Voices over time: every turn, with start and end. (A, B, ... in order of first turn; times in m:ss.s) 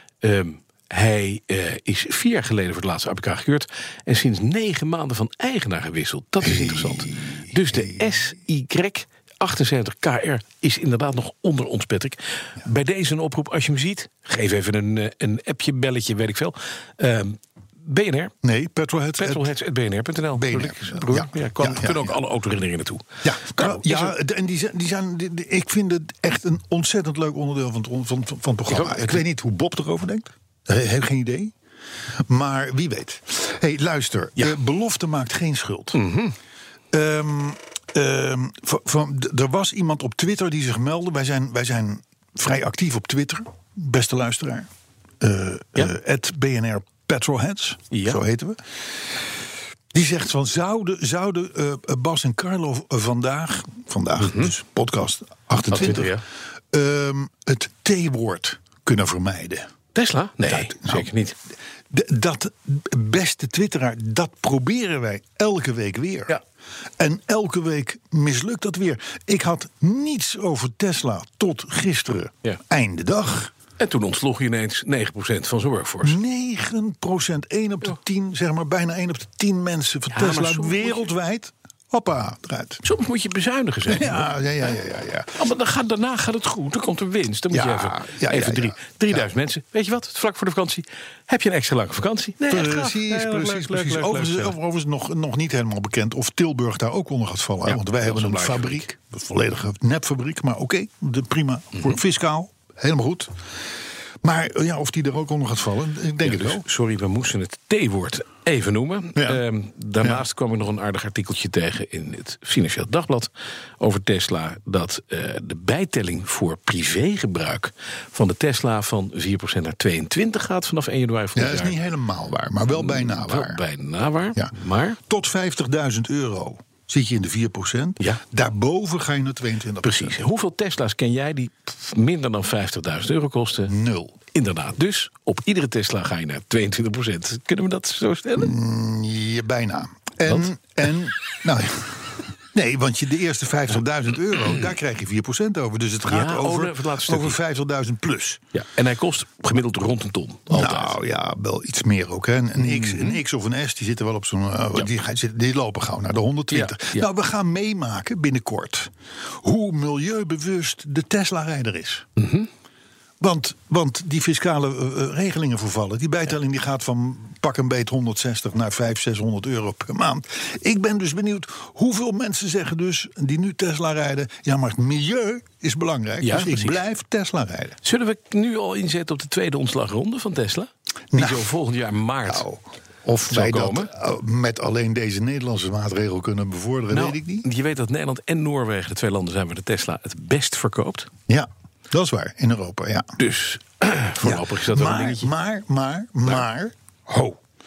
0:00.2-0:18.3 A
0:06.4-0:08.0 B
0:18.4-0:19.5 B
0:19.2-0:24.1 A
0:20.3-0:22.2 B
0:23.2-0:31.5 B
0:28.7-0:29.2 A
0:32.3-0:36.0 B
0:35.9-0:36.4 A
0:36.9-0:44.7 B
0:45.2-0:49.2 B
0:47.9-0:48.2 A
0:49.9-0:56.2 B
0:54.2-0:54.5 A
0:55.7-0:56.2 A
0:56.7-0:59.7 B
0:59.9-1:01.3 A
1:00.4-1:01.1 B
1:01.9-1:06.4 B
1:07.0-1:13.5 B
1:13.8-1:16.2 A
1:16.0-1:22.8 B
1:20.1-1:21.1 A
1:22.8-1:24.3 A
1:23.9-1:25.4 B
1:25.4-1:34.5 A
1:27.5-1:29.3 B
1:32.5-1:43.3 B
1:37.6-1:38.9 A
1:44.2-1:46.6 B
1:46.2-2:01.8 A
1:49.2-1:49.4 B
2:01.4-2:03.6 B
2:02.7-2:05.0 A
2:05.0-2:10.2 B
2:09.8-2:13.7 A
2:13.7-2:14.2 B
2:14.3-2:18.5 A
2:18.4-2:28.4 B
2:26.1-2:27.4 A
2:28.5-2:30.9 A
2:30.5-2:38.9 B
2:32.6-2:33.2 A
2:36.5-2:37.0 A
2:39.4-2:42.1 B
2:42.2-2:42.5 A
2:43.2-2:57.8 B
2:56.2-2:56.8 A
2:57.8-3:02.4 A
3:01.1-3:01.5 B
3:02.3-3:07.4 B
3:03.3-3:03.9 A
3:06.9-3:11.1 A
3:11.3-3:13.2 B
3:13.2-3:15.3 A
3:14.2-3:17.4 B